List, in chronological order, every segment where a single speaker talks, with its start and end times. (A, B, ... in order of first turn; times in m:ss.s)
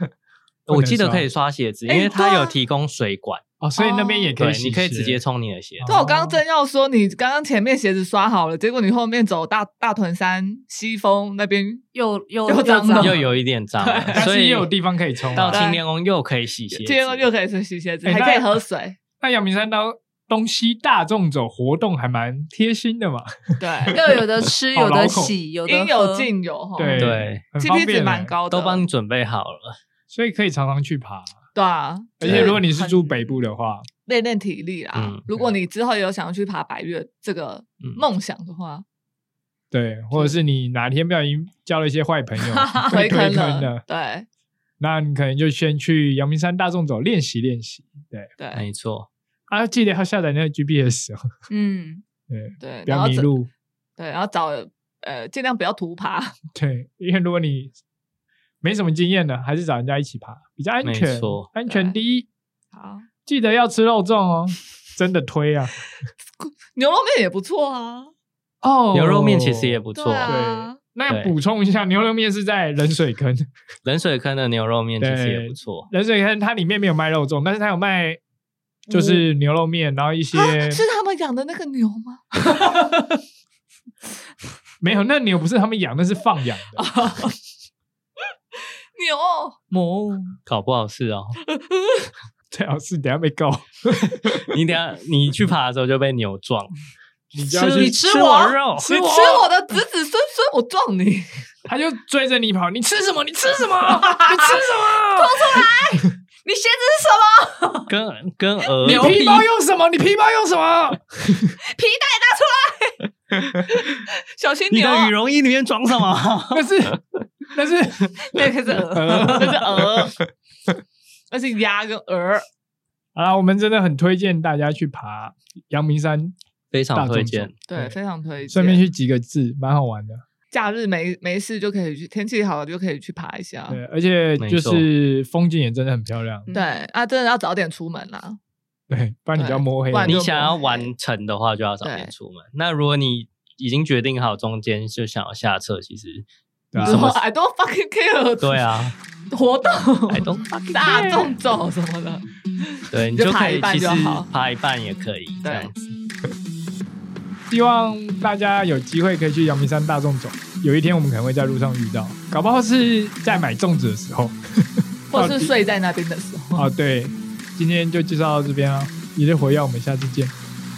0:00.7-0:01.3 A
0:00.7-0:03.4 B
0:01.9-0:02.6 C
0:03.6-0:05.2 A
0:03.8-0:04.3 C
0:04.4-0:05.9 B
0:05.8-0:06.4 A
0:05.9-0:11.8 C
0:11.9-0:13.2 D
0:12.5-0:13.3 C
0:13.0-0:14.7 B
0:13.8-0:14.3 C
0:14.2-0:15.6 A
0:15.3-0:17.3 B
0:15.4-0:15.8 C
0:16.7-0:19.0 C
0:18.0-0:18.5 A
0:19.2-0:24.2 A
0:23.6-0:24.0 C
0:23.9-0:26.3 D
0:24.7-0:25.4 A
0:25.7-0:28.8 C
0:26.8-0:28.3 A
0:26.9-0:27.4 B
0:28.5-0:29.8 B
0:30.1-0:31.3 A
0:31.6-0:33.4 C
0:32.2-0:33.9 A
0:32.2-0:32.6 B
0:34.1-0:38.8 C
0:34.9-0:35.2 B
0:39.7-0:43.8 A
0:42.8-0:44.3 C
0:44.8-0:48.3 A
0:48.4-0:48.6 C
0:48.5-0:49.1 B
0:49.5-0:51.2 A
0:51.5-0:52.0 D
0:52.3-0:53.5 A
0:52.6-0:53.3 C
0:54.0-0:56.4 C
0:56.5-0:57.7 A
0:58.6-1:02.3 A
1:00.8-1:01.5 B
1:01.7-1:02.0 C
1:02.7-1:03.1 C
1:03.3-1:05.8 A
1:06.4-1:08.1 C
1:08.6-1:13.5 A
1:08.9-1:10.4 B
1:10.0-1:10.8 C
1:11.1-1:11.3 B
1:13.8-1:15.9 B
1:15.0-1:18.2 A
1:18.9-1:20.8 A
1:18.9-1:19.2 C
1:20.3-1:23.1 C
1:24.8-1:26.9 A
1:26.8-1:27.4 C
1:29.0-1:30.4 C
1:30.5-1:31.4 B
1:31.5-1:32.1 C
1:32.5-1:34.5 A
1:34.5-1:36.7 B
1:37.3-1:38.0 A
1:37.5-1:38.9 B
1:37.5-1:38.6 D
1:38.8-1:39.5 A
1:38.9-1:41.3 C
1:41.7-1:45.6 A
1:44.0-1:47.9 D
1:47.9-1:49.2 B
1:48.8-1:49.5 D
1:48.8-1:51.6 A
1:51.7-1:53.0 D
1:53.9-1:55.1 C
1:54.7-1:56.7 B
1:56.5-2:00.2 A
1:58.3-1:59.6 D
1:59.2-2:00.2 C
2:01.3-2:02.4 C
2:03.2-2:06.4 A
2:06.7-2:07.6 B
2:06.9-2:08.0 A
2:07.7-2:08.8 C
2:08.5-2:10.2 A
2:10.5-2:13.8 C
2:13.7-2:16.5 A
2:14.4-2:14.9 B
2:16.5-2:16.8 D
2:16.5-2:18.4 C
2:18.9-2:20.2 A
2:19.4-2:20.9 C
2:20.0-2:26.3 B
2:21.8-2:22.1 C
2:26.7-2:27.1 A
2:26.8-2:27.2 B
2:26.8-2:28.7 C
2:28.4-2:29.0 B
2:29.3-2:34.3 C
2:30.1-2:31.3 B
2:32.9-2:35.8 B
2:35.4-2:35.7 C
2:37.5-2:45.5 A
2:45.1-2:46.7 C
2:46.6-2:50.3 A